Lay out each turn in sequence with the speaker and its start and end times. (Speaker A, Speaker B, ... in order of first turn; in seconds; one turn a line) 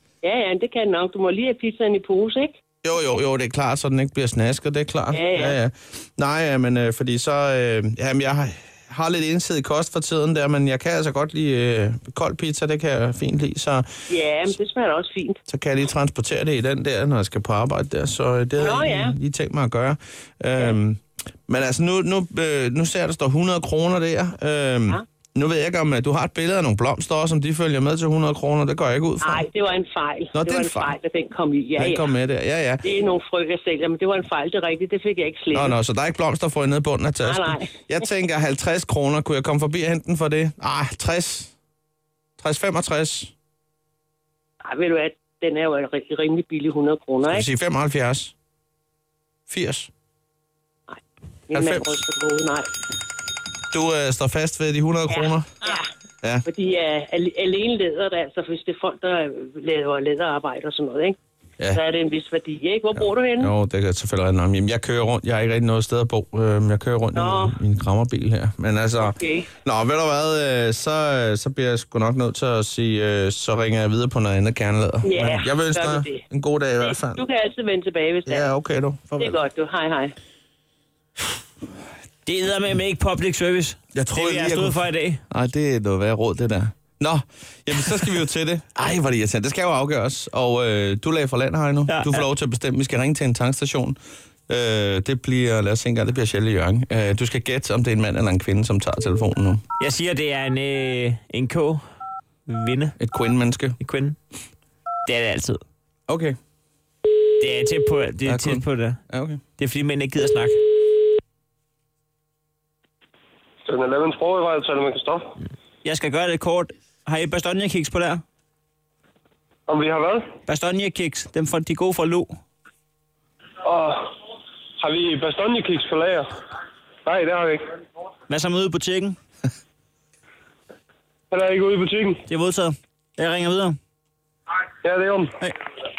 Speaker A: 0.2-2.6
Speaker B: 2.8-14.1
Speaker A: 5.1-5.6
Speaker A: 14.1-15.4
Speaker B: 15.5-29.5
Speaker A: 18.6-19.2
Speaker A: 29.2-32.1
Speaker B: 30.3-31.0
Speaker B: 31.8-32.9
Speaker A: 32.8-35.8
Speaker B: 35.5-41.5
Speaker A: 37.2-37.7
Speaker B: 42.4-43.3
Speaker A: 44.6-47.5
Speaker B: 47.2-48.3
Speaker B: 49.5-49.9
Speaker A: 50.9-52.7
Speaker B: 51.5-52.0
Speaker B: 53.7-55.5
Speaker A: 55.1-55.9
Speaker A: 56.5-61.2
Speaker A: 61.7-63.5
Speaker B: 63.0-77.2
Speaker A: 67.2-67.6
Speaker A: 69.0-69.5
Speaker A: 75.0-76.2
Speaker A: 76.8-78.5
Speaker B: 78.3-79.4
Speaker A: 79.2-80.1
Speaker C: 82.2-85.2
Speaker B: 84.0-99.6
Speaker C: 91.9-92.3
Speaker C: 99.8-101.8
Speaker C: 102.5-103.0
Speaker B: 103.0-103.8
Speaker C: 103.8-104.2
Speaker C: 105.0-105.6
Speaker B: 106.1-106.4
Speaker C: 107.4-109.0
Speaker B: 108.2-109.4
Speaker C: 109.6-110.6
Speaker D: 113.7-115.3
Speaker C: 115.8-118.2
Speaker D: 119.7-120.3
Speaker C: 120.5-122.3
Speaker D: 123.7-124.1
Speaker D: 124.8-126.3
Speaker D: 127.0-127.6
Speaker C: 128.3-129.2
Speaker D: 131.3-132.2
Speaker C: 132.3-133.8
Speaker D: 134.8-135.3